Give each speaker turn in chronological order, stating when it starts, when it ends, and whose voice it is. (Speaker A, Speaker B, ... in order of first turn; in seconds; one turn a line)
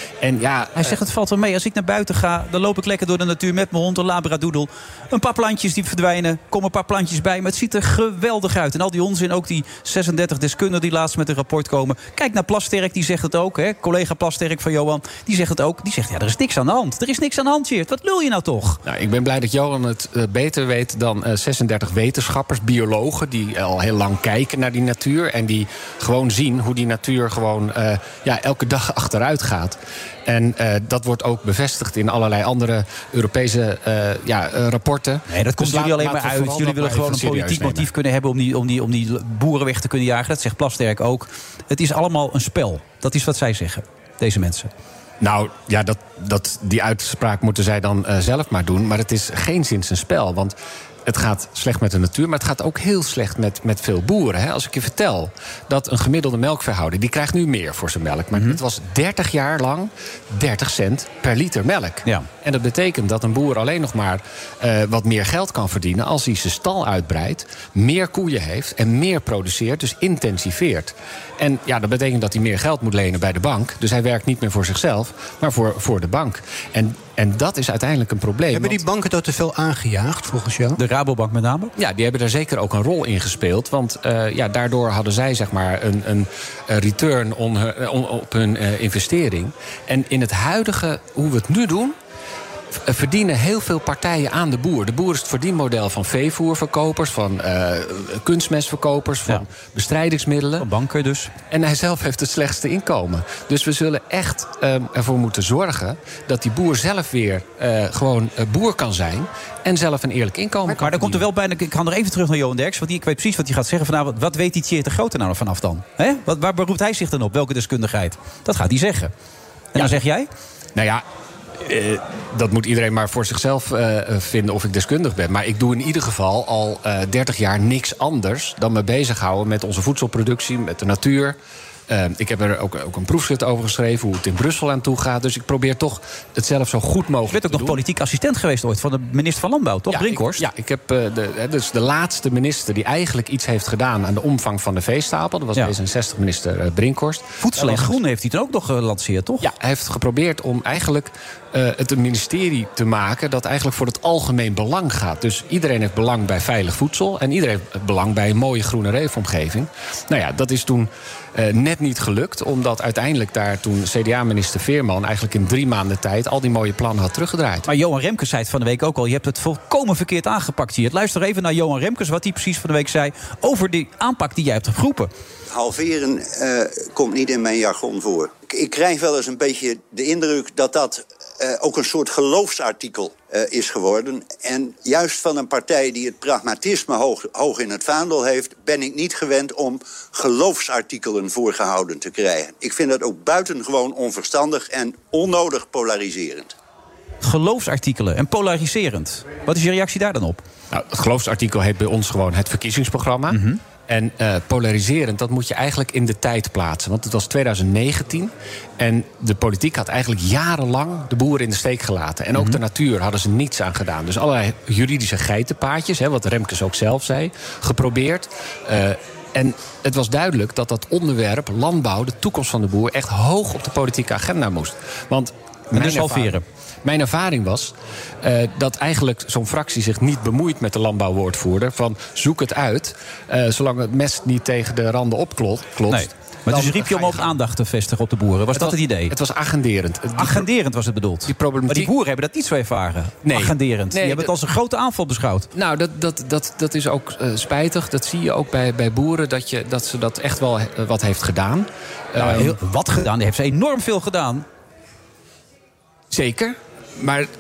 Speaker A: 0.2-1.0
Speaker B: 0.8-18.8
Speaker A: 18.9-37.9
Speaker B: 35.3-44.7
Speaker A: 45.2-50.5
Speaker A: 51.1-78.8
Speaker B: 58.3-58.6
Speaker C: 78.5-80.8
Speaker B: 80.8-81.7
Speaker A: 81.8-92.0
Speaker A: 92.7-100.7
Speaker B: 100.6-101.3
Speaker A: 101.5-111.3
Speaker B: 110.8-119.1
Speaker B: 119.8-120.3
Speaker A: 120.8-121.0
Speaker A: 121.6-131.4
Speaker A: 131.9-137.8
Speaker B: 137.3-140.4
Speaker A: 139.9-148.0
Speaker B: 147.4-149.5
Speaker A: 149.4-167.7
Speaker B: 167.7-175.1
Speaker D: 175.5-196.5
Speaker B: 197.2-200.4
Speaker A: 200.7-237.4
Speaker B: 203.3-203.6
Speaker B: 225.8-226.4
Speaker B: 235.9-239.1
Speaker A: 238.5-240.5
Speaker B: 240.2-245.5
Speaker A: 241.2-241.9
Speaker A: 243.2-244.3
Speaker A: 245.6-252.6
Speaker B: 252.2-254.4
Speaker A: 256.1-257.3